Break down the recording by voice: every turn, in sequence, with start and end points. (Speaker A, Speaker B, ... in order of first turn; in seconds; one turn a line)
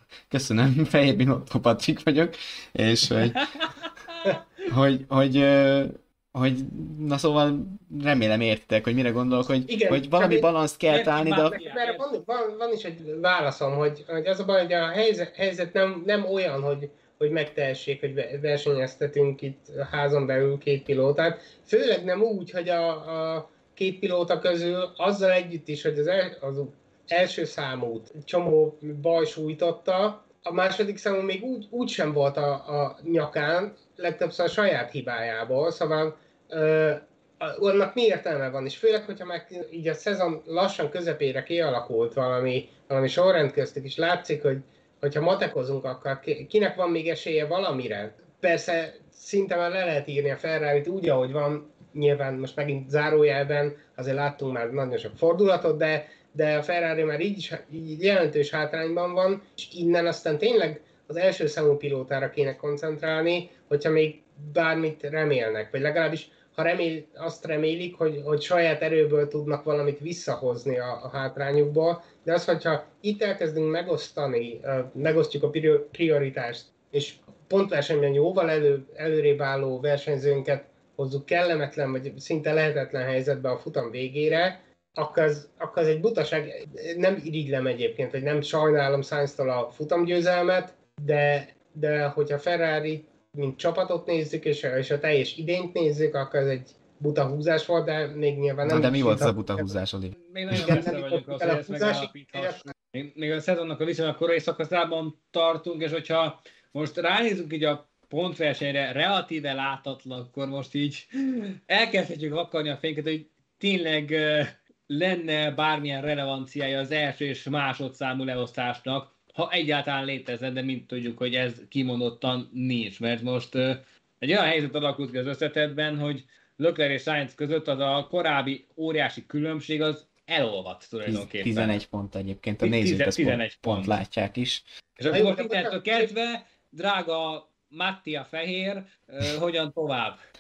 Speaker A: 0.3-3.5
Speaker B: 3.3-3.9
Speaker A: 4.7-11.6
Speaker C: 9.7-10.5
Speaker B: 10.9-12.0
Speaker C: 11.5-99.7
Speaker A: 98.6-100.9
Speaker B: 100.2-131.8
Speaker C: 100.5-102.7
Speaker A: 131.1-134.6
Speaker B: 132.6-134.0
Speaker B: 135.0-140.2
Speaker C: 135.1-136.1